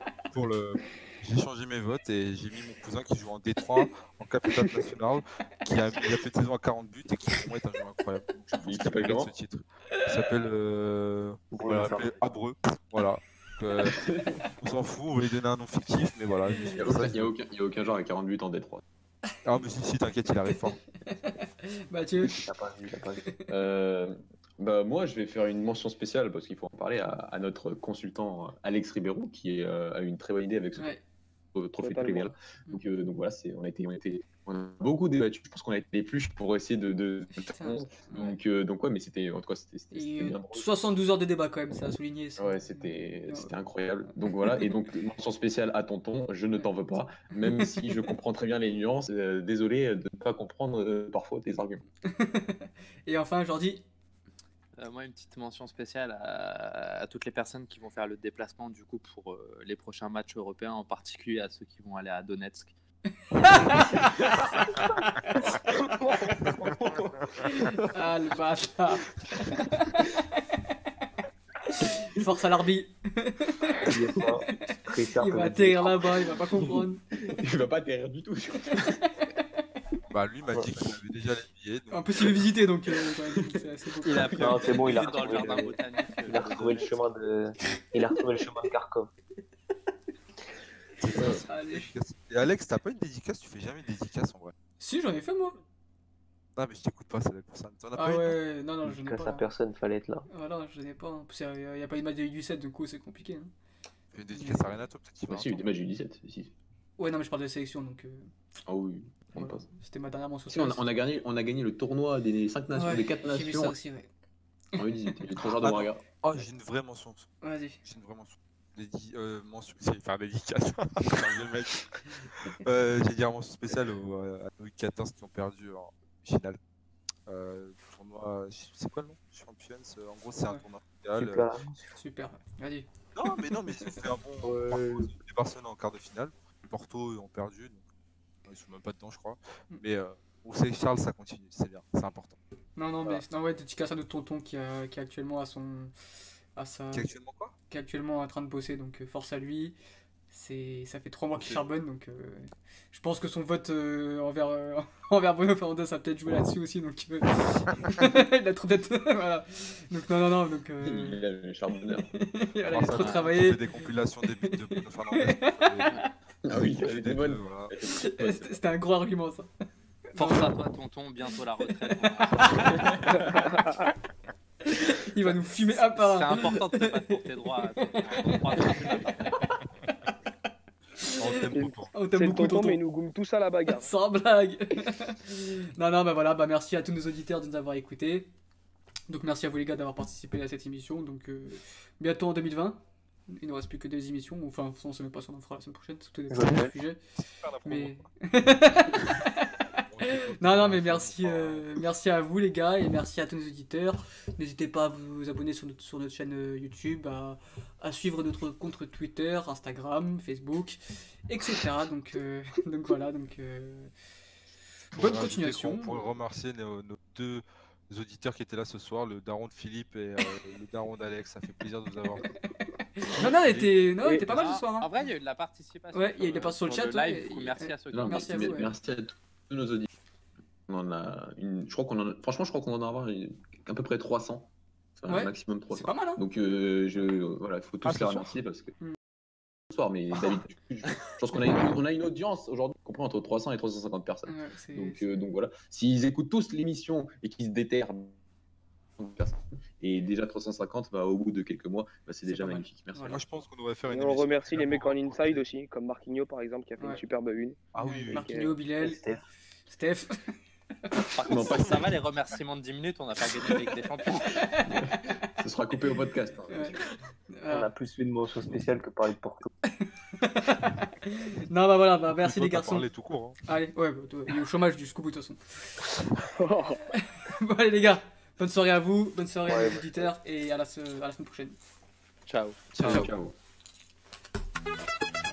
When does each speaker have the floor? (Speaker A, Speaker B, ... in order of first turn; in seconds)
Speaker A: 0.3-17.3, 19.4-20.8, 66.4-66.8, 80.1-82.5, 91.0-94.5, 96.6-98.4, 104.1-105.7, 115.6-117.3, 117.8-126.6, 127.3-131.5, 133.2-137.8, 138.5-142.4, 146.9-147.5, 151.4-151.6, 162.7-166.0, 166.6-167.7, 181.0-181.9, 197.2-198.1, 199.8-201.7, 214.9-222.3, 223.1-223.8, 237.8-238.4, 253.1-255.4, 257.7-258.3, 272.2-273.4, 282.8-283.1
Speaker B: 4.5-4.8, 20.5-22.4, 30.8-31.0, 37.5-38.4, 39.9-43.5, 44.4-44.7, 47.4-48.1, 52.1-53.8, 63.4-65.3, 67.4-70.7, 71.7-77.4, 78.7-79.3, 81.9-84.4, 91.5-91.9, 94.8-95.6, 98.0-99.5, 100.3-103.5, 104.3-104.8, 107.0-108.3, 109.3-110.9, 112.7-114.1, 114.8-115.3, 117.4-117.8, 131.8-132.9, 142.8-145.9, 146.6-147.1, 147.7-149.8, 150.3-161.2, 161.9-166.1, 167.9-169.5, 170.1-170.5, 171.7-173.6, 174.7-177.2, 177.8-179.6, 181.0-182.8, 183.7-188.3, 189.1-197.0, 197.7-213.9, 214.9-216.0, 222.2-224.9, 225.9-228.7, 235.1-236.2, 244.3-245.2, 252.2-253.2, 257.8-259.0, 259.7-260.3, 264.1-265.3, 266.5-266.8, 267.3-267.7, 269.7-272.9, 273.5-275.9, 276.9-281.6, 282.8-283.1
Speaker C: 8.6-9.3, 16.8-18.8, 23.5-30.9, 31.5-40.7, 42.4-51.8, 77.3-79.0, 105.3-106.5, 108.7-109.7, 110.5-113.8, 114.8-116.0, 160.8-162.1, 166.5-168.6, 227.9-229.9, 230.7-238.8, 239.7-248.2, 249.0-253.2, 261.3-261.8, 264.7-266.9, 282.8-283.3
Speaker D: 11.5-12.2, 22.4-23.3, 73.8-76.0, 80.5-80.9, 84.3-89.1, 98.8-100.3, 131.2-131.8, 134.4-135.1, 196.3-196.7, 258.7-259.2, 267.5-269.5, 279.5-280.1
Speaker E: 31.8-32.3, 173.3-173.9, 181.5-183.9, 253.9-258.5, 276.2-276.8
Speaker F: 54.8-62.7, 84.0-86.9, 170.2-173.2, 175.7-179.3, 224.1-228.5, 261.1-264.4, 282.3-282.6